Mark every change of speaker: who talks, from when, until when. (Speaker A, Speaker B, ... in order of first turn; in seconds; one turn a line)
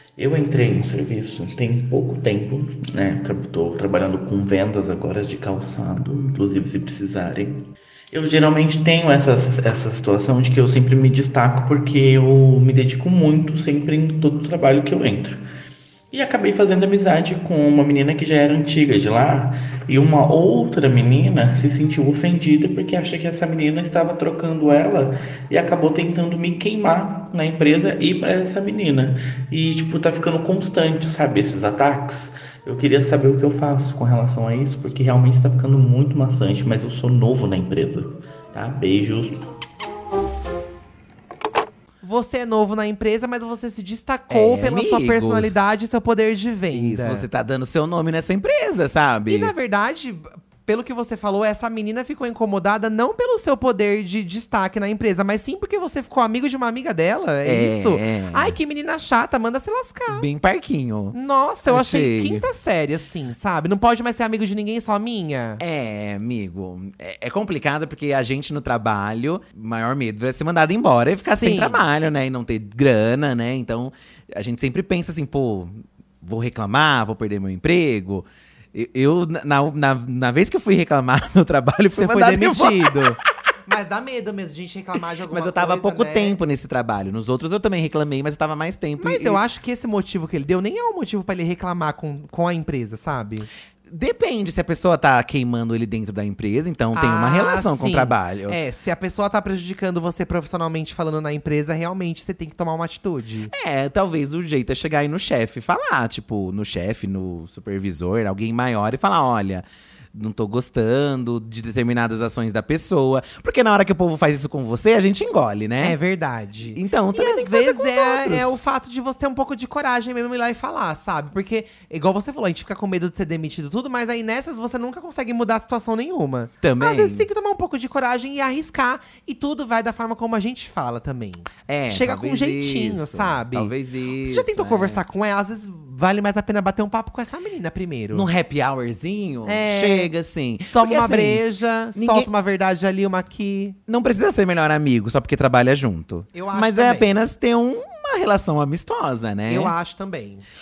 Speaker A: 0.2-15.4
Speaker A: 16.1-39.4
Speaker B: 42.0-47.2
Speaker C: 44.3-45.5
Speaker C: 46.7-49.5
Speaker B: 49.3-60.3
Speaker C: 57.4-58.5
Speaker C: 60.1-61.1
Speaker B: 61.1-65.6
Speaker C: 61.7-62.5
Speaker C: 65.6-83.0
Speaker B: 71.2-71.8
Speaker B: 81.9-86.3
Speaker C: 85.3-89.4
Speaker B: 89.0-93.5
Speaker C: 93.9-98.6
Speaker B: 96.9-103.5
Speaker C: 103.5-116.0
Speaker B: 115.8-133.7
Speaker C: 116.7-118.6
Speaker C: 126.6-127.2
Speaker C: 131.7-135.0
Speaker B: 134.2-138.3
Speaker C: 138.1-141.4
Speaker B: 139.4-140.1
Speaker B: 140.7-143.8
Speaker C: 141.9-142.3
Speaker C: 143.9-149.7
Speaker B: 146.3-147.1
Speaker B: 149.5-150.4